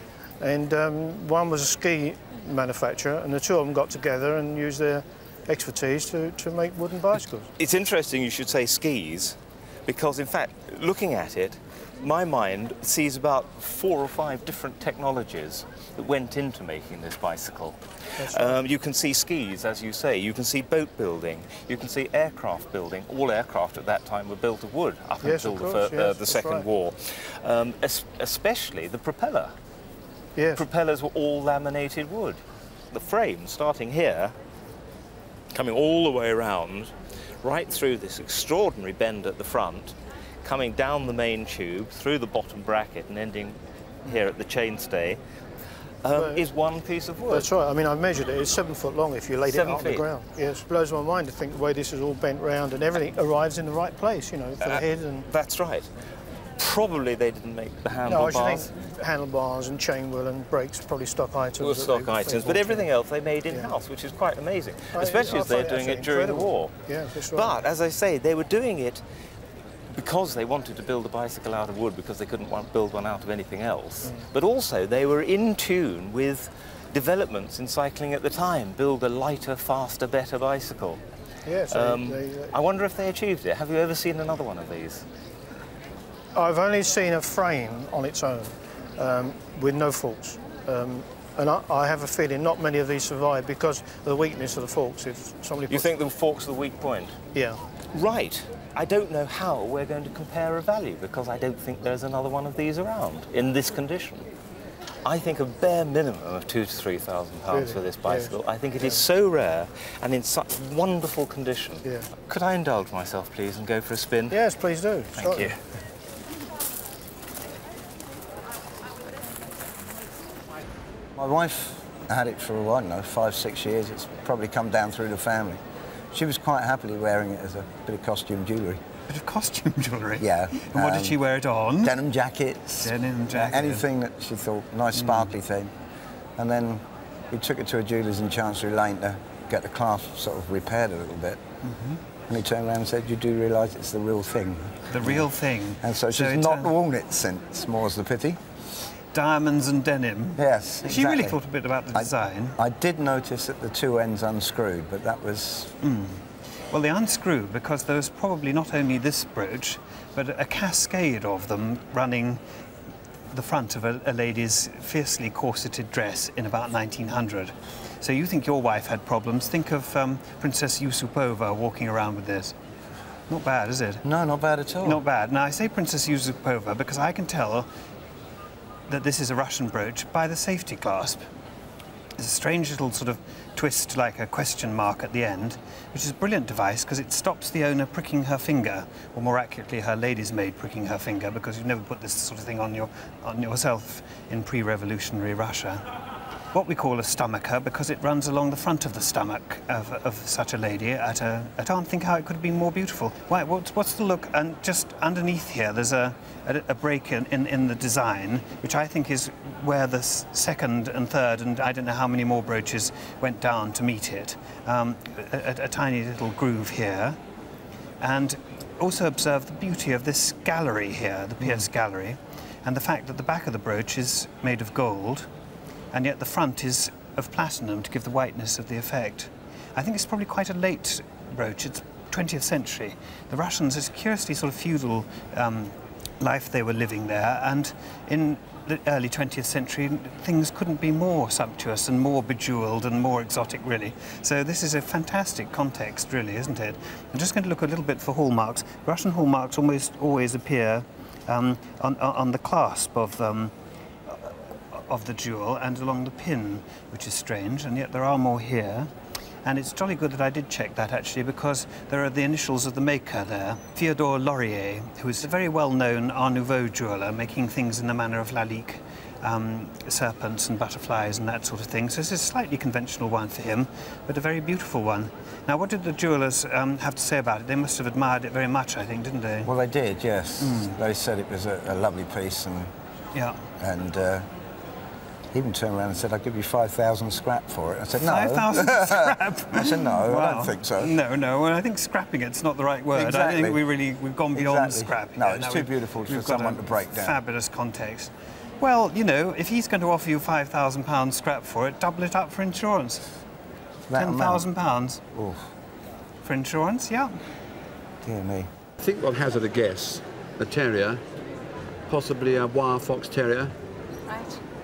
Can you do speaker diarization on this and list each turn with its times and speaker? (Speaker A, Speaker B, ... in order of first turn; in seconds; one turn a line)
Speaker A: 0.4-7.5
Speaker B: 7.6-29.5
Speaker A: 18.2-18.6
Speaker A: 25.2-26.6
Speaker A: 30.4-30.6
Speaker B: 30.5-32.4
Speaker B: 32.9-34.3
Speaker B: 35.5-45.2
Speaker B: 46.0-47.5
Speaker A: 46.1-46.4
Speaker A: 47.3-55.2
Speaker B: 49.5-50.1
Speaker B: 54.6-55.9
Speaker B: 56.6-58.7
Speaker A: 58.0-62.9
Speaker B: 61.6-69.0
Speaker A: 64.9-67.6
Speaker B: 69.9-81.0
Speaker A: 81.4-82.5
Speaker B: 81.7-85.0
Speaker A: 86.3-95.9
Speaker B: 95.7-97.2
Speaker A: 97.3-97.6
Speaker B: 97.9-104.3
Speaker B: 105.0-114.4
Speaker A: 107.5-109.0
Speaker A: 114.3-115.5
Speaker B: 115.1-115.5
Speaker C: 121.2-125.6
Speaker C: 126.1-128.8
Speaker D: 129.1-131.9
Speaker C: 130.2-131.2
Speaker C: 131.8-135.7
Speaker D: 132.8-133.8
Speaker D: 134.9-135.3
Speaker C: 136.4-141.4
Speaker D: 141.7-142.0
Speaker C: 142.3-145.3
Speaker D: 144.9-146.7
Speaker C: 145.8-148.4
Speaker D: 149.1-152.6
Speaker C: 150.4-151.4
Speaker C: 151.9-155.7
Speaker D: 155.8-156.2
Speaker D: 156.7-162.4
Speaker D: 163.3-172.5
Speaker D: 173.3-174.0
Speaker C: 174.0-175.0
Speaker D: 174.8-177.7
Speaker D: 178.9-181.2
Speaker D: 182.2-195.8
Speaker D: 196.5-217.2
Speaker D: 218.0-225.3
Speaker D: 225.9-253.5
Speaker D: 254.1-258.9
Speaker D: 259.4-279.5
Speaker C: 279.4-282.7
Speaker D: 280.4-280.8
Speaker C: 283.6-284.2
Speaker C: 285.3-291.0
Speaker D: 288.0-303.0
Speaker C: 292.9-293.6
Speaker C: 294.3-297.2
Speaker C: 303.9-304.5
Speaker D: 303.9-305.0
Speaker C: 305.1-305.4
Speaker D: 306.2-307.1
Speaker C: 308.0-308.5
Speaker E: 308.8-311.0
Speaker E: 311.9-313.5